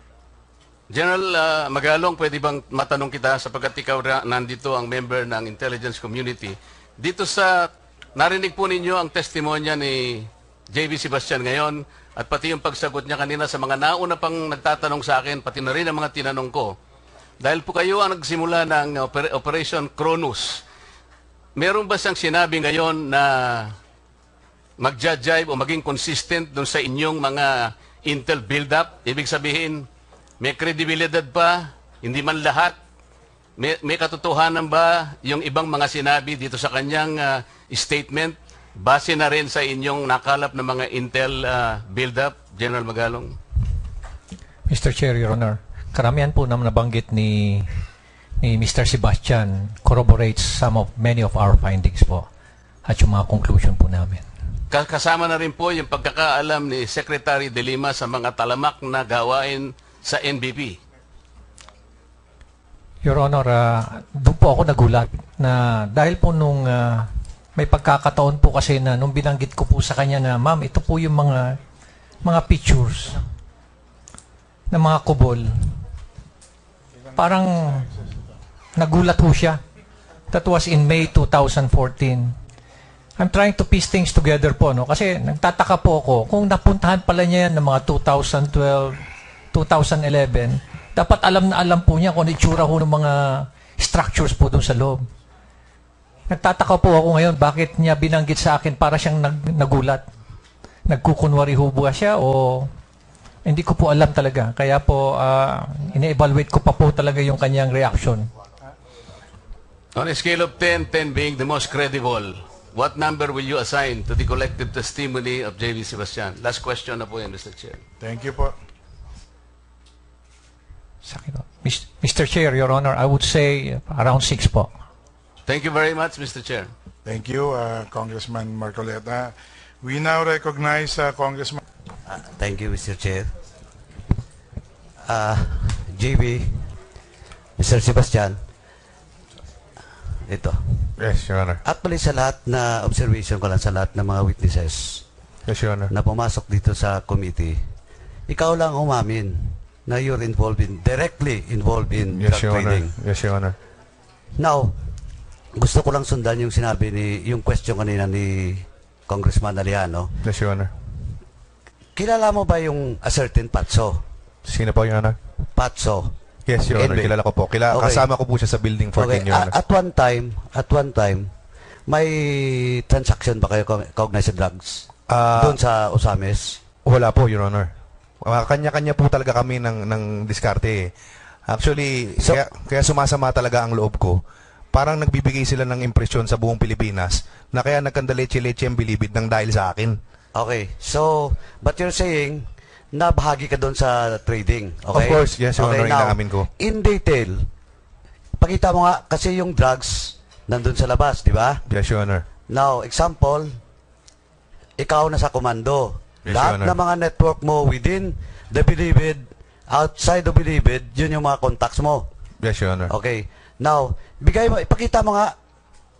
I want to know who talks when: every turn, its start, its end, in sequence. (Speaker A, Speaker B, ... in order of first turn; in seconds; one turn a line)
Speaker A: 0.9-16.7
Speaker A: 17.4-20.6
Speaker A: 21.6-23.7
Speaker A: 24.8-29.8
Speaker A: 30.4-32.8
Speaker A: 33.6-43.4
Speaker B: 44.7-47.8
Speaker B: 48.4-52.3
Speaker B: 52.8-54.2
Speaker A: 54.7-60.8
Speaker B: 63.0-71.6
Speaker B: 72.2-73.2
Speaker B: 74.7-75.8
Speaker C: 77.1-77.5
Speaker B: 77.2-77.9
Speaker B: 78.8-79.6
Speaker B: 80.3-82.3
Speaker B: 83.2-89.0
Speaker B: 89.5-95.1
Speaker B: 96.3-100.0
Speaker B: 100.9-102.7
Speaker B: 103.5-108.3
Speaker A: 110.0-117.8
Speaker C: 118.0-118.5
Speaker B: 121.0-124.7
Speaker A: 125.5-126.7
Speaker C: 127.0-131.6
Speaker D: 132.1-133.3
Speaker D: 135.0-136.7
Speaker D: 137.6-138.4
Speaker D: 140.2-140.9
Speaker E: 141.0-141.6
Speaker D: 141.6-145.0
Speaker E: 145.5-145.9
Speaker D: 145.9-147.6
Speaker D: 148.3-152.9
Speaker E: 152.1-153.6
Speaker D: 154.4-154.8
Speaker D: 155.6-160.1
Speaker E: 160.2-160.7
Speaker D: 161.9-164.0
Speaker E: 164.4-165.2
Speaker D: 165.6-166.1
Speaker E: 166.5-169.5
Speaker D: 166.7-167.1
Speaker D: 167.7-168.1
Speaker D: 168.9-171.3
Speaker D: 171.9-176.6
Speaker E: 175.1-175.6
Speaker E: 176.8-177.7
Speaker E: 178.2-180.9
Speaker E: 181.5-184.2
Speaker E: 184.7-190.0
Speaker D: 190.3-197.5
Speaker E: 194.9-196.5
Speaker D: 198.4-201.6
Speaker E: 201.7-202.2
Speaker D: 202.5-203.6
Speaker D: 204.8-212.1
Speaker E: 206.2-206.8
Speaker E: 212.4-212.9
Speaker D: 212.9-215.3